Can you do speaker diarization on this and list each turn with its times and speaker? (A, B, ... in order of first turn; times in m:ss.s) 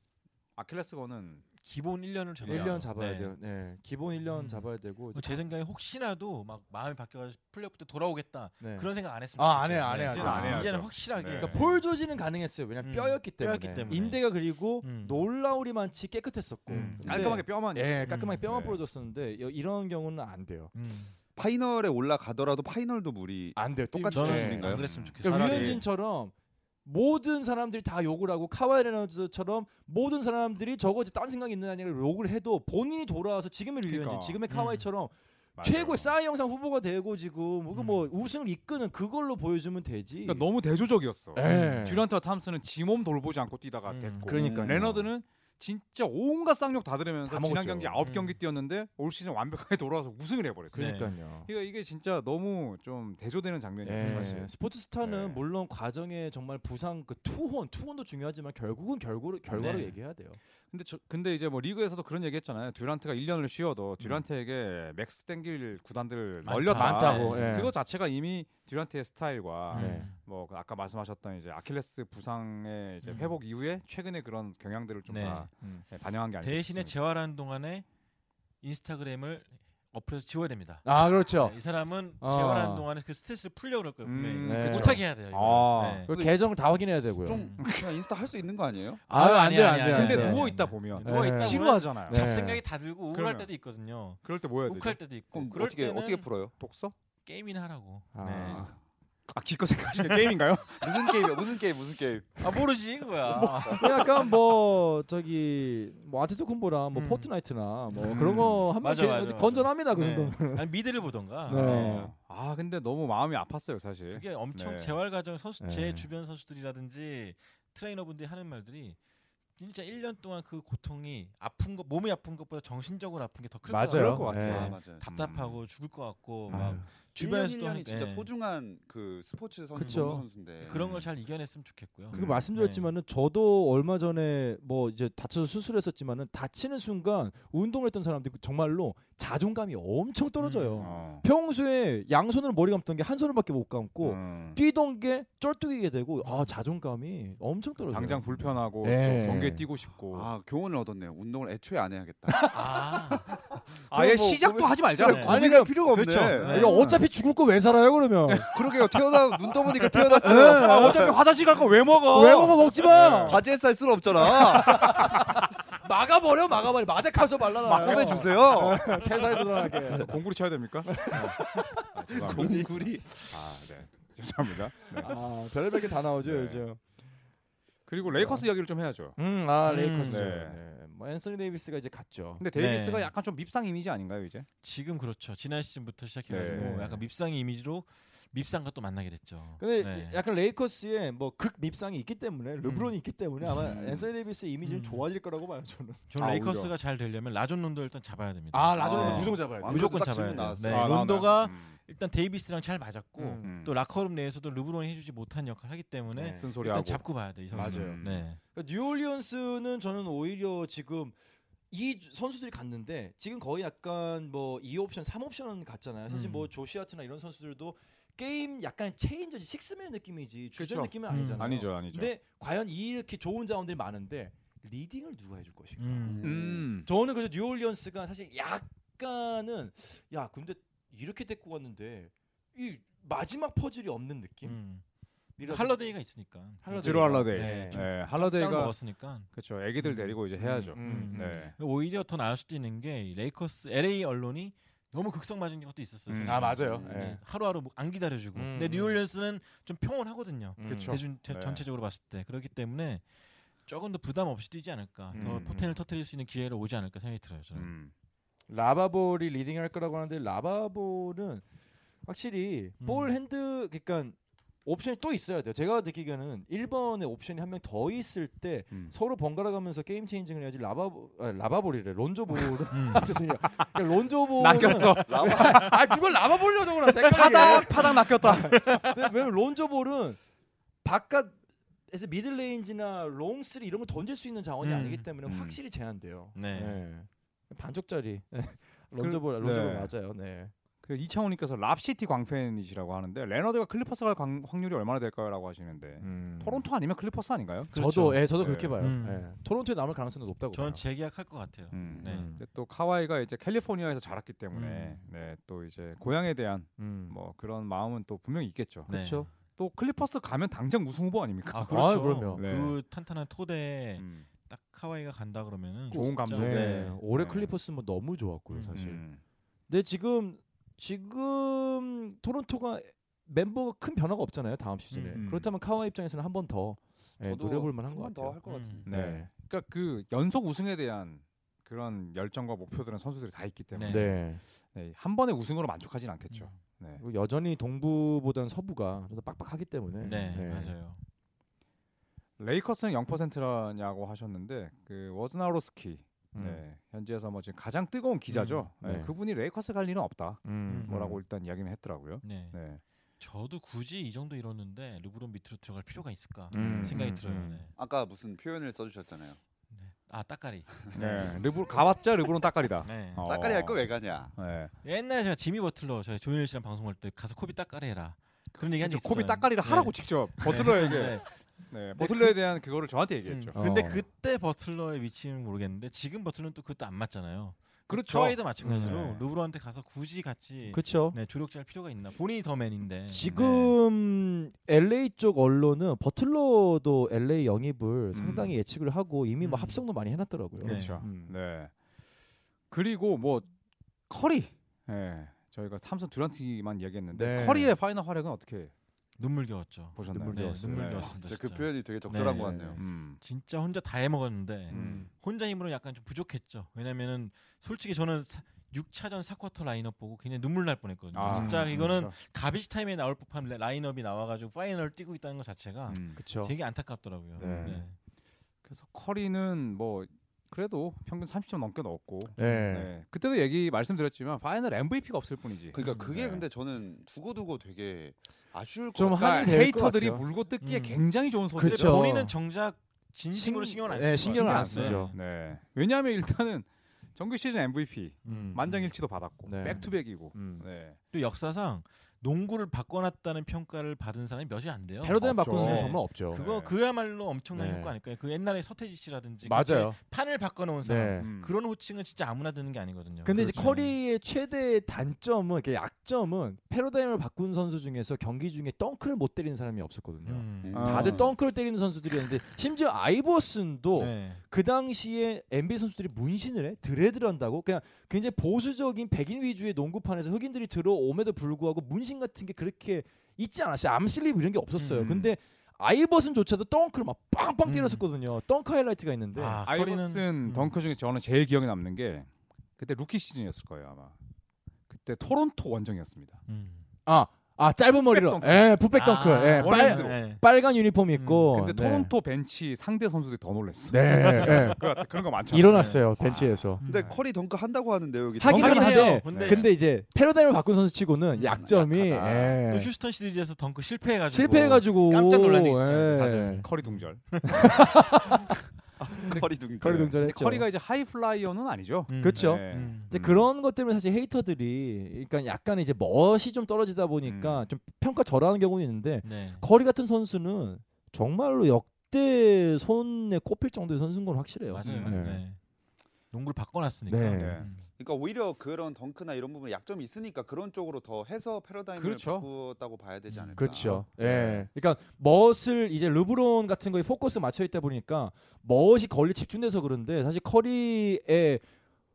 0:00.6-0:01.4 A
0:01.6-0:03.4 B
0:02.4-0:02.9 A
0:02.5-0:05.4 C
0:04.2-0:11.8 B
0:08.6-0:10.7 C
0:10.0-0:11.6 A
0:11.3-0:20.7 C
0:12.8-0:15.2 B
0:16.7-0:17.1 B
0:17.0-0:18.8 A
0:17.1-0:17.3 D
0:18.1-0:18.5 B
0:20.7-0:21.1 B
0:21.4-0:24.9 D
0:23.6-0:26.3 C
0:24.1-0:25.9 B
0:24.6-0:25.8 A
0:26.8-0:40.4 C
0:33.9-0:34.4 A
0:34.5-0:34.9 B
0:35.6-0:36.1 A
0:37.7-0:38.0 B
0:40.3-0:54.5 A
0:41.4-0:42.0 C
0:41.5-0:41.8 B
0:43.9-0:44.5 B
0:44.3-0:45.1 C
0:47.3-0:48.0 C
0:48.0-0:48.4 B
0:50.7-0:51.1 B
0:50.7-0:51.5 C
0:53.8-1:00.4 C
0:54.0-0:54.3 B
0:55.0-0:55.4 A
0:59.5-1:00.0 B
1:00.7-1:16.9 A
1:06.4-1:07.7 B
1:06.7-1:07.7 C
1:09.7-1:10.2 B
1:09.7-1:10.1 C
1:13.0-1:13.4 B
1:15.1-1:15.5 B
1:16.4-1:17.8 B
1:18.6-1:26.1 B
1:20.8-1:21.6 C
1:22.2-1:22.9 C
1:24.0-1:26.1 A
1:24.4-1:25.0 C
1:26.1-1:27.4 C
1:26.1-1:26.4 D
1:27.2-1:29.0 D
1:27.3-1:27.6 B
1:27.6-1:27.9 A
1:29.1-1:36.3 B
1:29.1-1:30.5 C
1:29.9-1:32.3 A
1:31.0-1:32.6 C
1:33.1-1:33.5 A
1:34.2-1:35.0 A
1:35.3-1:36.5 D
1:36.6-1:36.9 A
1:37.3-1:38.7 B
1:38.1-1:38.7 C
1:39.3-1:41.5 A
1:40.8-1:42.6 D
1:42.4-1:44.2 B
1:43.3-1:44.0 D
1:43.7-1:50.7 C
1:46.9-1:47.3 B
1:48.0-1:48.7 A
1:48.1-1:52.1 B
1:51.5-1:52.1 C
1:51.5-1:55.0 A
1:54.1-1:59.0 B
1:55.6-1:56.1 C
1:59.6-2:08.3 B
2:03.7-2:04.7 C
2:03.8-2:05.6 A
2:04.4-2:05.0 D
2:06.5-2:06.8 A
2:06.5-2:06.9 C
2:07.2-2:10.8 D
2:09.8-2:10.2 C
2:09.8-2:12.9 B
2:10.7-2:11.1 A
2:12.1-2:12.5 A
2:12.1-2:29.7 C
2:20.4-2:20.9 B
2:20.8-2:21.2 A
2:24.0-2:24.6 A
2:26.2-2:26.5 B
2:27.9-2:30.3 A
2:30.1-2:33.2 D
2:32.5-2:33.3 B
2:33.9-2:36.8 D
2:33.9-2:37.1 A
2:35.0-2:35.4 B
2:35.2-2:38.5 C
2:36.3-2:36.9 B
2:38.3-2:39.2 A
2:38.5-2:41.2 D
2:39.8-2:43.4 A
2:40.1-2:41.2 C
2:42.1-2:43.4 C
2:43.2-2:45.0 D
2:44.2-2:50.2 C
2:44.6-2:45.4 A
2:47.6-2:49.3 D
2:49.8-2:55.2 A
2:50.8-2:52.7 C
2:52.1-2:53.2 D
2:55.0-2:56.8 C
2:56.2-2:56.6 A
2:57.9-2:59.2 A
2:58.1-2:58.4 C
2:59.2-3:02.4 C
2:59.6-3:00.3 B
3:00.0-3:00.6 A
3:02.4-3:04.5 A
3:02.6-3:03.1 B
3:04.6-3:10.2 B
3:06.3-3:06.8 A
3:06.5-3:07.0 C
3:09.6-3:16.1 C
3:12.6-3:12.9 B
3:13.6-3:14.1 D
3:14.6-3:15.1 B
3:16.1-3:28.4 B
3:16.2-3:16.7 A
3:18.5-3:19.9 C
3:18.8-3:21.0 D
3:20.7-3:21.8 A
3:23.2-3:23.5 C
3:23.4-3:23.7 A
3:26.1-3:26.5 C
3:26.4-3:28.2 A
3:27.5-3:28.0 C
3:28.5-3:31.2 C
3:31.7-3:54.6 C
3:36.1-3:36.5 B
3:40.6-3:42.1 A
3:41.1-3:41.5 B
3:45.8-3:46.3 B
3:46.0-3:46.7 D
3:46.2-3:46.9 A
3:54.4-3:54.8 B
3:55.4-3:55.9 C
3:55.4-3:59.3 B
3:56.6-3:57.8 C
3:56.8-3:58.8 A
3:59.3-4:01.6 A
3:59.8-4:00.1 B
4:00.4-4:01.4 C
4:00.7-4:13.0 B
4:06.1-4:06.6 A
4:06.3-4:07.2 C
4:06.6-4:07.1 D
4:08.4-4:09.0 C
4:10.6-4:11.0 C
4:10.7-4:11.6 A
4:13.6-4:17.7 B
4:15.1-4:15.5 C
4:15.1-4:15.7 A
4:17.6-4:17.9 A
4:18.5-4:21.4 C
4:22.1-4:40.2 C
4:22.8-4:23.2 B
4:32.7-4:33.1 B
4:34.4-4:35.7 A
4:35.0-4:35.8 D
4:37.0-4:38.9 A
4:37.1-4:38.9 B
4:40.8-4:41.4 C
4:41.9-4:50.5 C
4:44.6-4:45.1 B
4:45.3-4:45.6 A
4:46.4-4:46.8 B
4:49.0-4:49.9 A
4:50.8-4:57.7 A
4:56.0-4:56.6 C
4:57.7-4:59.3 B
4:57.7-5:00.8 C
4:58.4-4:58.8 A
5:00.5-5:02.3 B
5:01.7-5:08.9 A
5:02.0-5:02.4 C
5:04.5-5:05.0 B
5:06.8-5:07.2 C
5:08.9-5:09.3 C
5:08.9-5:09.3 B
5:09.6-5:12.8 A
5:11.5-5:17.0 B
5:11.7-5:12.4 C
5:14.0-5:14.3 A
5:15.9-5:17.5 A
5:16.3-5:19.0 C
5:18.5-5:18.8 B
5:18.7-5:19.2 A
5:19.7-5:29.3 C
5:24.9-5:25.2 B
5:25.1-5:25.5 A
5:27.2-5:28.9 D
5:28.4-5:28.9 B
5:28.9-5:34.2 A
5:33.7-5:34.1 B
5:33.9-5:34.4 C
5:34.7-5:37.0 A
5:36.3-5:36.6 B
5:37.0-5:40.8 C
5:40.0-5:41.0 B
5:42.4-5:52.8 A
5:46.3-5:46.6 C
5:48.3-5:48.6 B
5:48.8-5:49.1 C
5:50.4-5:51.2 C
5:50.7-5:51.1 B
5:52.2-5:52.6 B
5:53.2-5:57.7 B
5:56.5-5:57.6 C
5:56.5-5:57.0 A
5:57.8-5:59.4 D
5:59.7-6:01.3 B
6:00.9-6:04.7 A
6:02.8-6:03.3 B
6:03.2-6:04.3 D
6:04.8-6:11.4 B
6:08.6-6:13.6 A
6:12.0-6:12.4 B
6:13.2-6:23.7 B
6:13.6-6:14.1 C
6:17.9-6:19.1 A
6:18.6-6:19.2 C
6:20.7-6:21.2 C
6:23.1-6:31.3 C
6:23.3-6:23.6 A
6:28.1-6:28.6 A
6:29.4-6:29.8 B
6:30.6-6:31.1 B
6:30.6-6:31.7 A
6:32.7-6:33.5 A
6:34.1-6:38.7 A
6:37.1-6:37.7 C
6:39.2-6:57.9 B
6:40.0-6:41.1 A
6:40.1-6:41.1 C
6:41.2-6:42.8 D
6:42.2-6:42.8 C
6:42.8-6:43.2 A
6:44.7-6:45.1 C
6:44.7-6:45.1 A
6:51.1-6:52.1 A
6:51.2-6:51.8 C
6:55.9-6:56.2 A
6:56.2-6:56.5 C
6:57.4-6:57.8 A
6:57.4-6:57.8 C
6:58.6-7:06.4 A
7:02.4-7:02.9 C
7:02.4-7:02.7 B
7:05.7-7:09.9 D
7:05.8-7:06.1 B
7:08.9-7:10.2 C
7:09.1-7:12.0 A
7:10.6-7:15.2 B
7:11.6-7:12.4 C
7:13.3-7:15.2 C
7:14.2-7:21.0 A
7:18.2-7:18.9 B
7:18.2-7:18.6 C
7:19.5-7:20.6 C
7:21.1-7:34.0 B
7:25.0-7:26.4 C
7:25.2-7:26.7 A
7:27.5-7:27.9 C
7:29.4-7:30.0 C
7:30.8-7:31.3 C
7:31.2-7:31.6 A
7:33.2-7:59.6 C
7:40.2-7:41.1 B
7:40.6-7:41.3 D
7:40.7-7:41.3 A
7:44.0-7:44.4 B
7:54.8-7:55.3 B
7:57.7-7:58.0 B
7:59.4-8:00.7 B
7:59.6-8:04.2 A
8:04.9-8:06.4 A
8:06.5-8:06.8 B
8:07.1-8:12.1 C
8:08.1-8:08.8 A
8:08.9-8:10.4 B
8:09.6-8:10.2 A
8:11.2-8:11.5 B
8:11.5-8:16.0 A
8:13.9-8:14.8 C
8:14.2-8:14.6 B
8:15.5-8:16.8 C
8:15.6-8:16.0 B
8:16.8-8:17.2 B
8:16.8-8:19.6 D
8:18.4-8:22.9 C
8:18.4-8:19.7 B
8:19.3-8:19.7 A
8:21.3-8:21.6 B
8:21.5-8:22.6 D
8:22.7-8:27.8 B
8:24.3-8:26.6 C
8:25.1-8:27.8 A
8:27.5-8:30.7 C
8:29.2-8:30.2 D
8:30.1-8:33.4 A
8:32.1-8:33.1 B
8:32.2-8:45.4 C
8:37.2-8:37.7 A
8:39.2-8:39.7 B
8:44.7-8:45.6 B
8:44.8-8:45.2 A
8:46.3-8:47.8 B
8:47.1-8:47.6 C
8:47.3-8:47.7 A
8:48.0-8:54.0 D
8:52.0-8:52.5 A
8:53.3-8:53.6 B
8:53.6-9:01.6 C
8:54.0-8:54.7 A